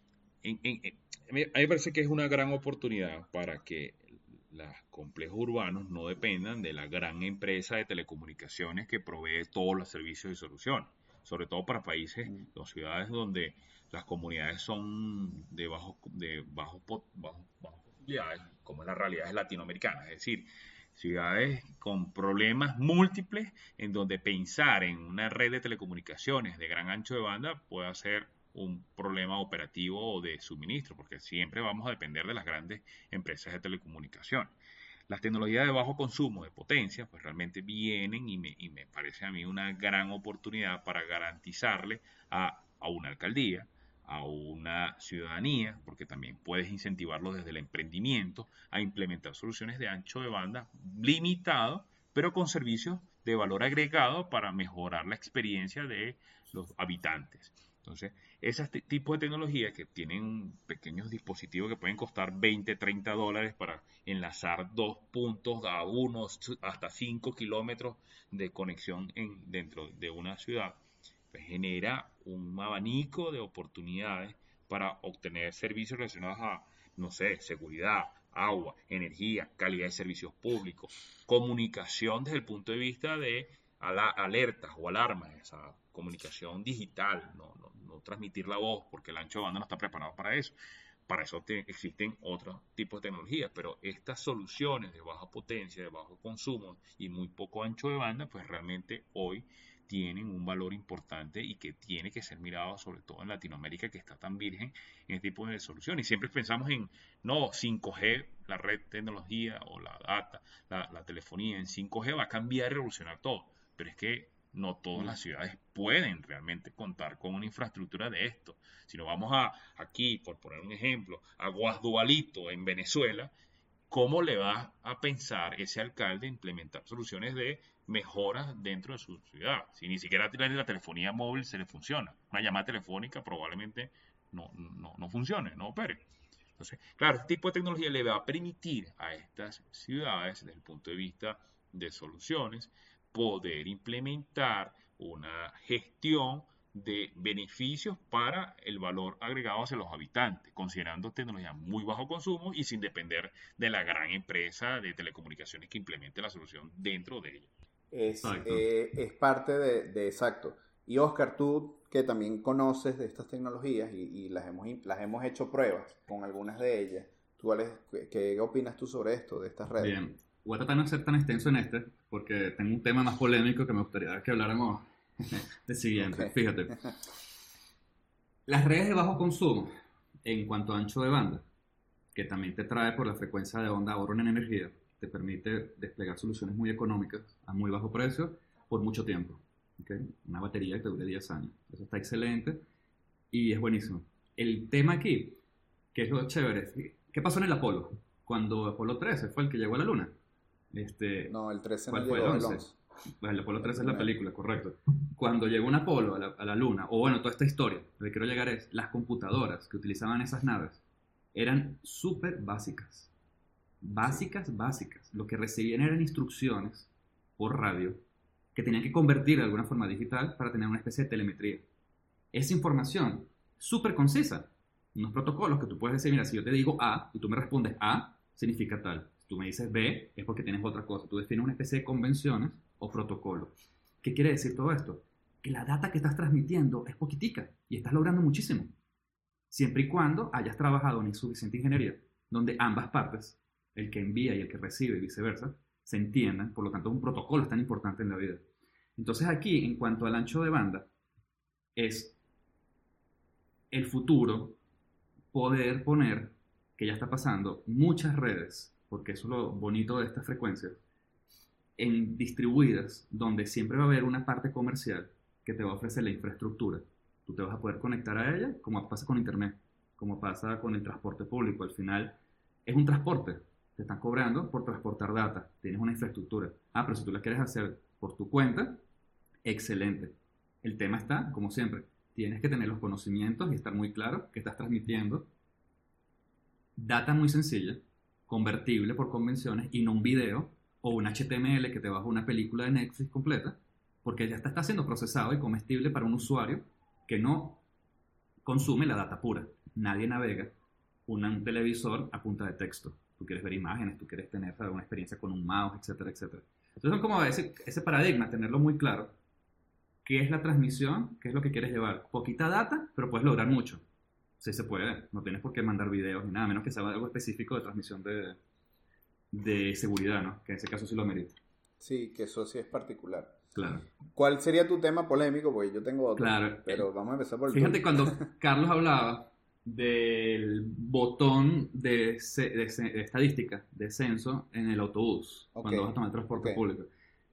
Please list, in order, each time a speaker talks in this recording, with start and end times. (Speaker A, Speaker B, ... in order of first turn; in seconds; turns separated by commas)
Speaker A: 0.4-34.5, Speaker A: 35.1-70.8, Speaker A: 71.3-90.5, Speaker A: 91.1-123.3, Speaker A: 123.9-136.1, Speaker A: 136.6-157.5, Speaker B: 157.9-169.9, Speaker C: 158.2-158.7, Speaker C: 169.8-176.9, Speaker B: 176.0-176.8, Speaker C: 178.5-179.7, Speaker C: 180.2-181.4, Speaker C: 182.1-192.6, Speaker C: 193.3-195.4, Speaker C: 195.9-200.1, Speaker C: 200.7-201.3, Speaker B: 201.3-202.8, Speaker C: 201.9-202.7, Speaker C: 203.2-210.8, Speaker B: 203.6-204.1, Speaker C: 211.3-213.1, Speaker C: 213.8-218.0, Speaker C: 218.5-221.7, Speaker C: 222.3-238.7, Speaker C: 239.5-250.9, Speaker C: 251.8-252.2, Speaker C: 253.7-254.6, Speaker C: 255.3-260.8, Speaker C: 261.8-278.8, Speaker C: 279.4-285.3, Speaker C: 286.8-297.6, Speaker C: 298.4-300.5, Speaker C: 301.1-309.1, Speaker C: 310.0-313.8, Speaker C: 314.4-318.4, Speaker C: 319.3-321.4, Speaker B: 321.8-323.4, Speaker C: 323.5-323.9, Speaker B: 324.1-328.3, Speaker C: 326.1-326.9, Speaker C: 327.5-336.9, Speaker B: 335.5-336.6